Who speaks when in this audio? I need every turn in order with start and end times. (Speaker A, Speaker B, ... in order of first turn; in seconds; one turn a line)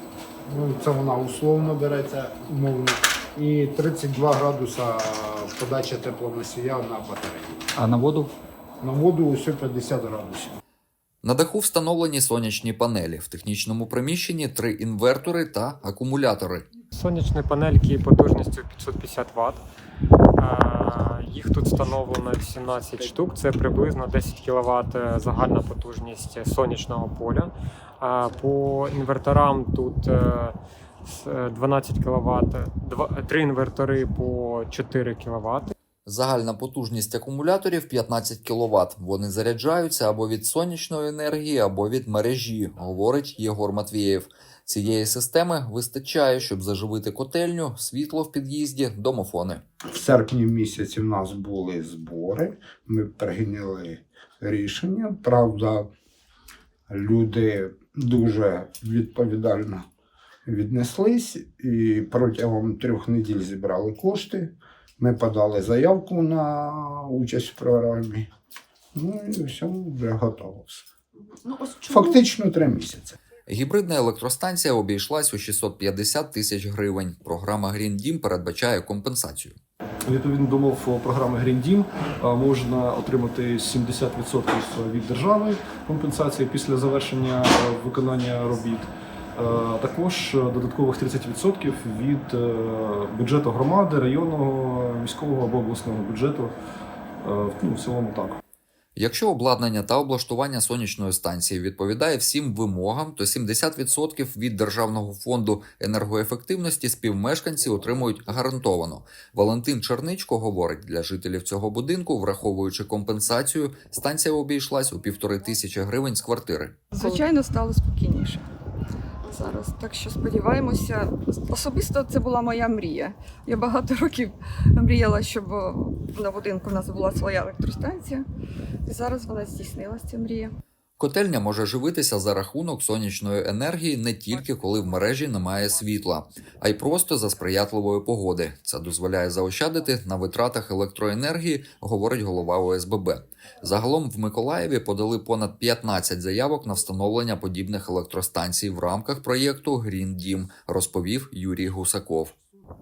Speaker A: 0.5-7.7
Speaker A: 8.8-10.6
Speaker B: 11.2-16.7
Speaker C: 16.9-19.6
Speaker C: 20.4-35.7
Speaker B: 36.1-49.6
Speaker A: 49.9-55.9
Speaker A: 56.9-59.9
Speaker A: 60.5-68.3
Speaker A: 69.0-70.8
Speaker A: 71.8-73.2
Speaker B: 73.5-79.6
Speaker D: 80.1-96.5
Speaker D: 97.2-98.4
Speaker B: 99.0-116.8
Speaker E: 116.9-118.5
Speaker E: 119.3-128.3
Speaker E: 128.9-130.5
Speaker B: 131.0-152.3